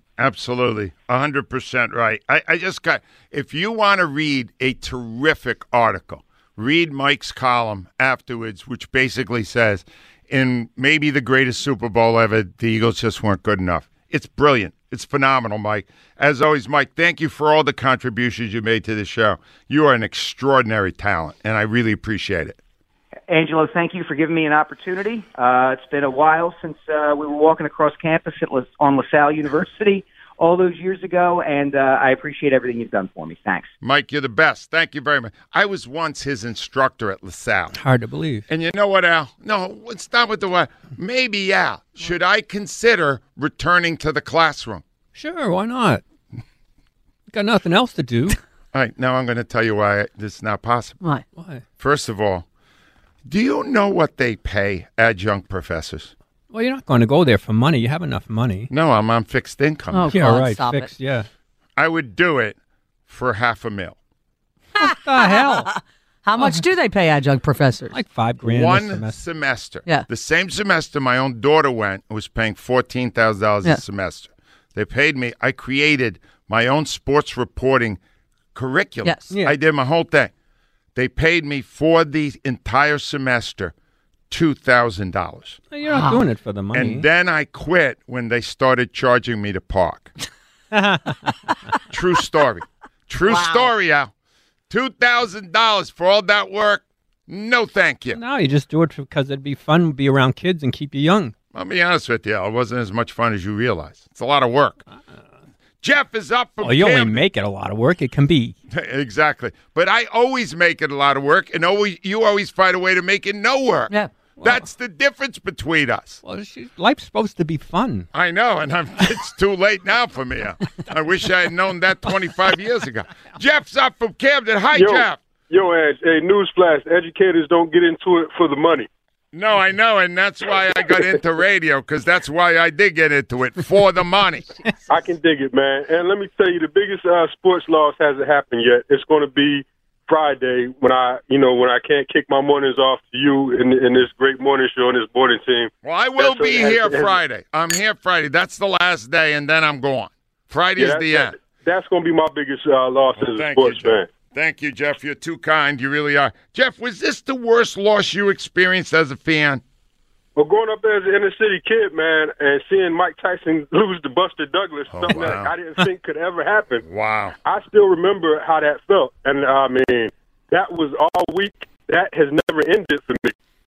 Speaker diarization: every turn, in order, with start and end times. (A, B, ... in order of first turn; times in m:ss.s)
0:00.2-0:22.6 A
0:23.3-0:33.7 B
0:33.8-0:37.8 A
0:37.8-0:38.4 C
0:38.5-0:44.8 A
0:45.1-0:46.0 C
0:47.3-0:48.4 C
0:48.7-0:51.0 A
0:51.4-0:51.6 C
0:51.8-0:52.5 A
0:53.2-0:56.1 A
0:56.5-0:58.7 C
0:58.7-1:00.1 A
0:59.9-1:01.0 D
1:00.1-1:01.2 C
1:01.8-1:04.0 A
1:04.8-1:08.0 D
1:04.8-1:05.7 C
1:07.9-1:09.2 C
1:08.4-1:18.0 A
1:18.5-1:20.3 A
1:19.0-1:19.3 D
1:21.0-1:23.7 A
1:24.3-1:25.6 A
1:25.7-1:27.0 C
1:25.9-1:26.3 D
1:26.7-1:30.1 A
1:30.7-1:31.2 C
1:31.9-1:34.1 A
1:33.3-1:33.7 D
1:34.7-1:38.2 A
1:38.1-1:41.3 C
1:41.5-1:44.8 A
1:45.8-1:47.2 A
1:46.6-1:48.6 C
1:48.7-1:56.2 A
1:56.2-1:58.1 C
1:58.1-2:05.2 A
2:04.7-2:08.9 E
2:09.3-2:14.5 A
2:14.9-2:27.2 E
2:25.8-2:31.4 A
2:30.8-2:34.1 E
2:33.2-2:39.6 A
2:40.4-2:46.8 E
2:44.9-2:45.5 A
2:46.9-2:47.4 A
2:47.4-2:53.4 E